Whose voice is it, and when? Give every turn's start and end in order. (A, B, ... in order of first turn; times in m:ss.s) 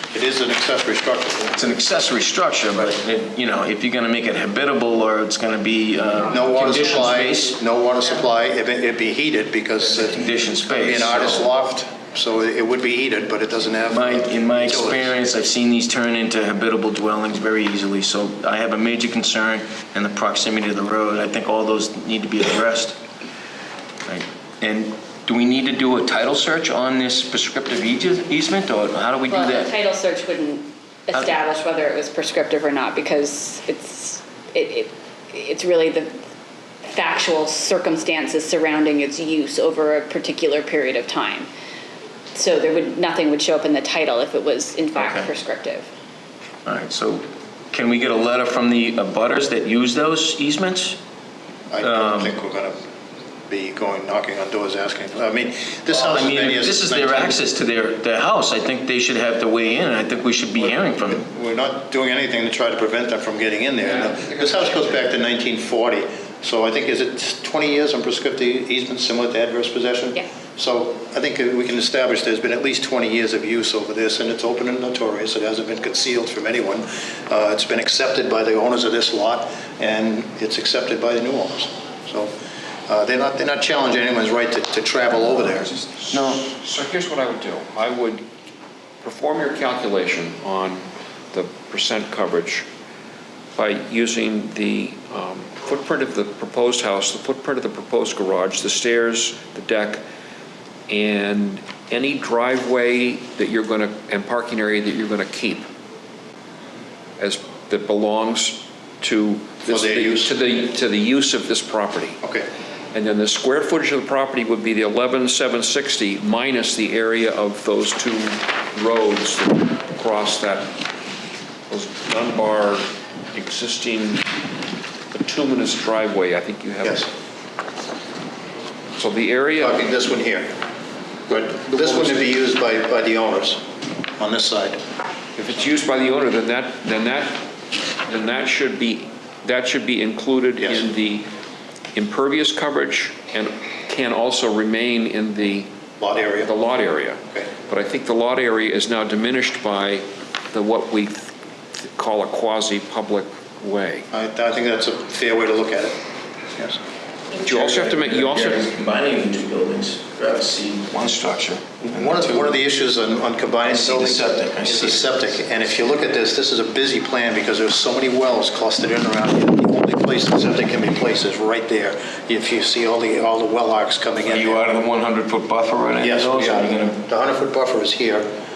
0:00.1-0:01.6 A
0:01.6-0:07.6 B
0:06.2-0:15.1 A
0:10.0-0:11.5 B
0:13.9-0:23.0 B
0:24.1-0:29.7 B
0:29.3-0:36.1 C
0:31.1-0:31.4 B
0:36.9-0:41.5 C
0:42.4-0:45.9 C
0:45.0-0:45.3 B
0:46.6-0:51.0 B
0:51.7-0:52.8 A
0:51.8-0:52.3 B
0:53.5-0:57.4 A
0:55.9-1:01.3 B
1:00.6-1:22.3 A
1:03.8-1:05.0 D
1:22.9-1:25.7 A
1:25.6-1:28.2 D
1:26.1-1:26.5 B
1:29.0-1:32.7 D
1:33.6-1:40.0 D
1:40.9-1:45.7 D
1:47.2-1:52.2 D
1:49.6-1:50.3 A
1:52.2-1:52.5 A
1:52.9-2:00.7 D
2:01.7-2:04.2 D
2:05.1-2:07.1 D
2:06.8-2:07.1 A
2:09.0-2:09.8 D
2:09.6-2:10.5 A
2:11.3-2:13.6 A
2:14.2-2:14.8 A
2:15.4-2:17.4 D
2:18.0-2:21.3 D
2:20.6-2:20.9 A
2:22.0-2:25.7 D
2:26.0-2:26.5 A
2:26.4-2:34.1 D
2:34.1-2:36.0 A
2:37.4-2:42.6 B
2:37.4-2:38.7 D
2:41.8-2:54.6 A
2:43.6-2:45.4 B
2:54.3-2:57.0 B
2:56.0-2:58.3 A